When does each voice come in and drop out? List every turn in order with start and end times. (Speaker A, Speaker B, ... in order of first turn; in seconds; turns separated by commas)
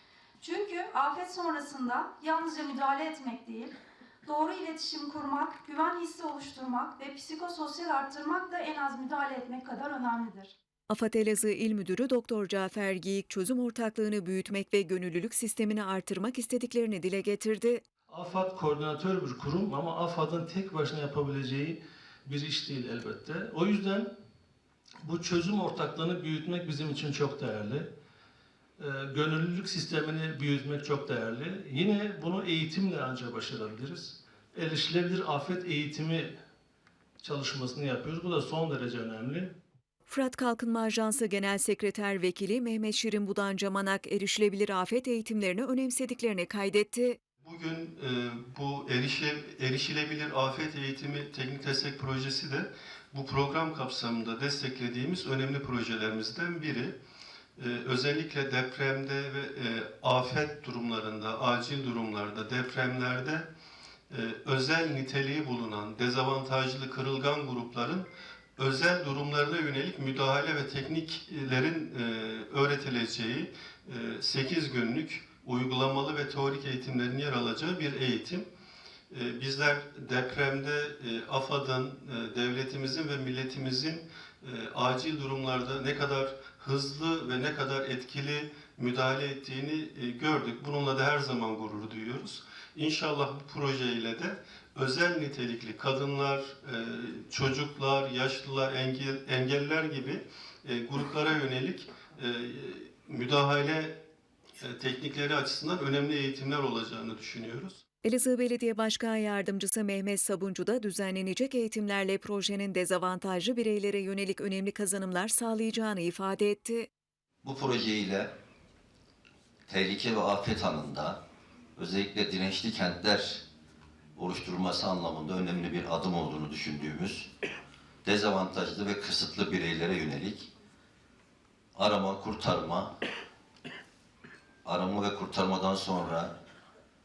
Speaker A: 0.4-10.5, Speaker B: 10.9-17.8, Speaker C: 18.1-24.1, Speaker C: 25.0-27.9, Speaker C: 28.8-36.3, Speaker C: 37.2-39.5, Speaker B: 40.1-47.2, Speaker D: 47.4-56.9, Speaker D: 57.6-63.5, Speaker D: 64.1-68.1, Speaker D: 68.6-78.5, Speaker D: 79.1-103.9, Speaker D: 104.6-107.8, Speaker B: 108.0-116.9, Speaker E: 117.4-118.3, Speaker E: 119.7-121.2, Speaker E: 121.8-123.5, Speaker E: 124.2-127.3, Speaker E: 128.1-130.5, Speaker E: 131.8-132.9, Speaker E: 134.6-136.3